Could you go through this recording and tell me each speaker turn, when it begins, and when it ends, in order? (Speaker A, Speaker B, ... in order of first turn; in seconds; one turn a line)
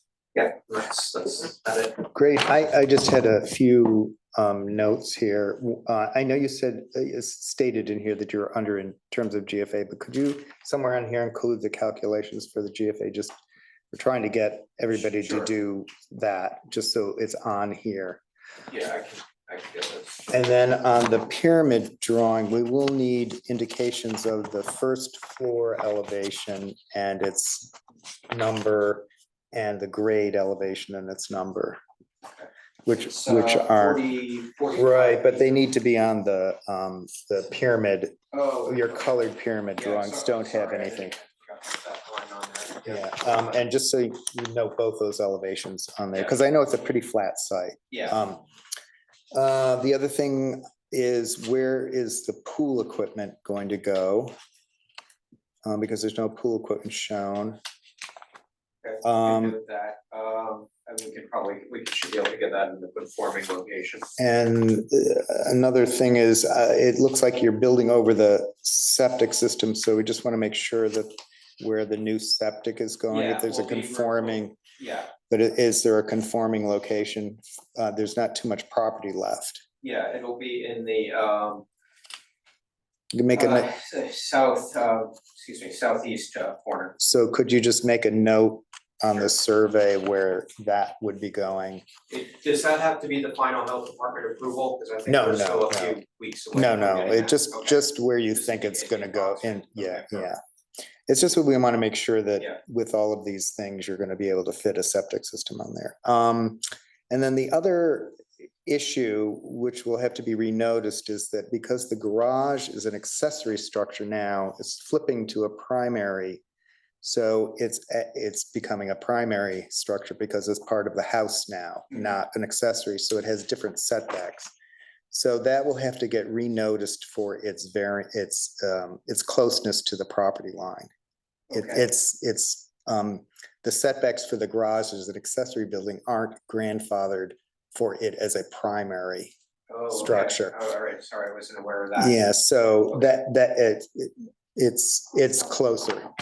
Speaker A: 0.3-2.0
Speaker B: 2.1-13.4
Speaker B: 13.9-18.2
Speaker A: 15.0-15.5
Speaker A: 18.7-20.3
Speaker B: 20.3-27.7
Speaker B: 28.3-31.8
Speaker B: 32.9-34.0
Speaker A: 33.1-35.5
Speaker B: 34.8-41.2
Speaker A: 38.3-39.1
Speaker A: 39.8-43.6
Speaker B: 42.9-48.4
Speaker A: 47.9-48.2
Speaker B: 49.3-54.3
Speaker B: 55.6-57.6
Speaker A: 58.8-64.1
Speaker B: 59.0-59.6
Speaker B: 64.2-74.6
Speaker A: 73.1-75.1
Speaker B: 75.3-79.6
Speaker A: 79.8-81.7
Speaker B: 83.1-83.7
Speaker A: 83.3-87.0
Speaker B: 87.0-91.8
Speaker A: 92.1-97.8
Speaker B: 95.1-96.0
Speaker B: 96.5-100.4
Speaker A: 98.3-100.3
Speaker B: 101.1-116.4
Speaker B: 117.0-124.5
Speaker B: 125.1-130.9
Speaker A: 131.5-131.8
Speaker B: 131.5-139.3
Speaker A: 139.7-142.3
Speaker B: 139.9-140.6
Speaker B: 142.0-146.1